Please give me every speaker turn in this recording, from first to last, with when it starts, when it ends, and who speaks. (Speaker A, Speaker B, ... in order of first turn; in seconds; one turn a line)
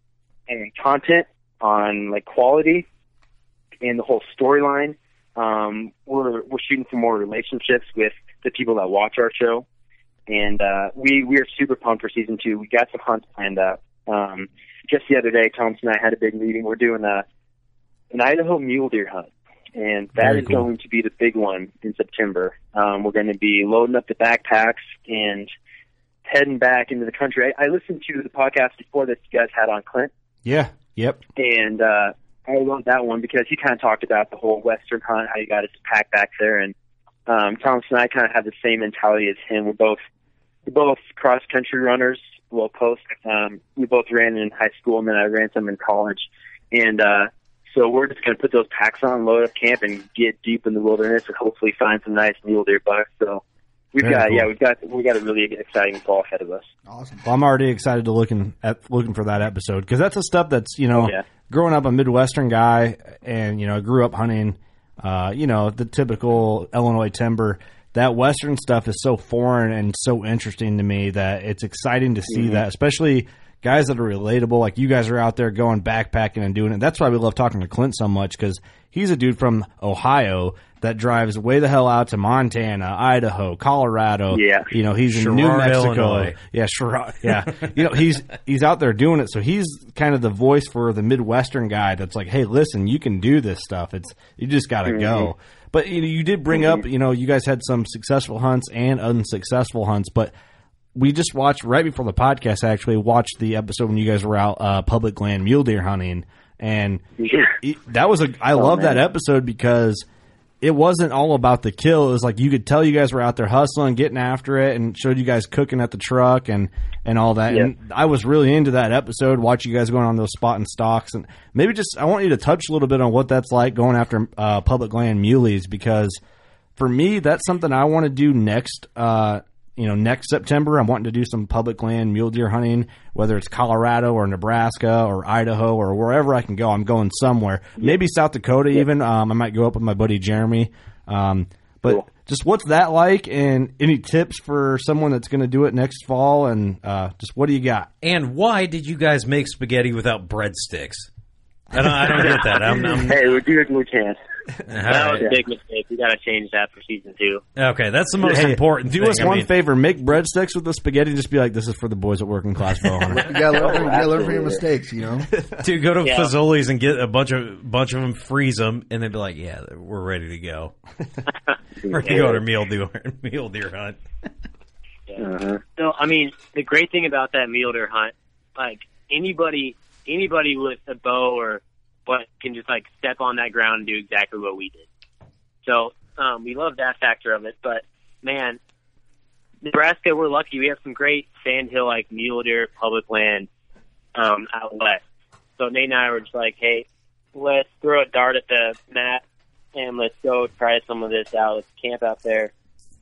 Speaker A: 0.5-2.9
Speaker A: 3.8-9.6
Speaker A: 10.3-17.2
Speaker A: 18.1-25.5
Speaker B: 20.2-20.7
Speaker A: 26.2-30.1
Speaker B: 30.4-31.2
Speaker A: 31.4-36.7
Speaker A: 37.3-40.0
Speaker A: 40.7-53.4
Speaker A: 53.9-56.7
Speaker B: 54.0-54.5
Speaker C: 56.9-57.2
Speaker B: 57.2-100.3
Speaker A: 60.9-61.2
Speaker A: 72.3-72.6
Speaker A: 84.3-84.7
Speaker D: 85.1-86.3
Speaker A: 94.8-95.3
Speaker B: 100.9-107.0
Speaker A: 107.2-107.5
Speaker B: 107.6-110.0
Speaker A: 108.5-109.0
Speaker B: 110.6-126.2
Speaker B: 126.8-147.9
Speaker D: 148.0-151.1
Speaker D: 151.7-153.2
Speaker A: 153.0-154.2
Speaker D: 154.7-155.2
Speaker E: 154.9-157.4
Speaker D: 157.6-159.5
Speaker B: 158.2-163.3
Speaker C: 163.1-165.3
Speaker A: 163.5-164.6
Speaker D: 165.6-170.7
Speaker E: 166.0-166.3
Speaker A: 171.8-172.4
Speaker D: 171.9-174.0
Speaker A: 175.2-175.6
Speaker E: 175.8-184.8
Speaker E: 185.6-188.6
Speaker E: 189.6-193.5
Speaker E: 194.2-195.0
Speaker E: 195.6-199.2
Speaker E: 199.7-202.5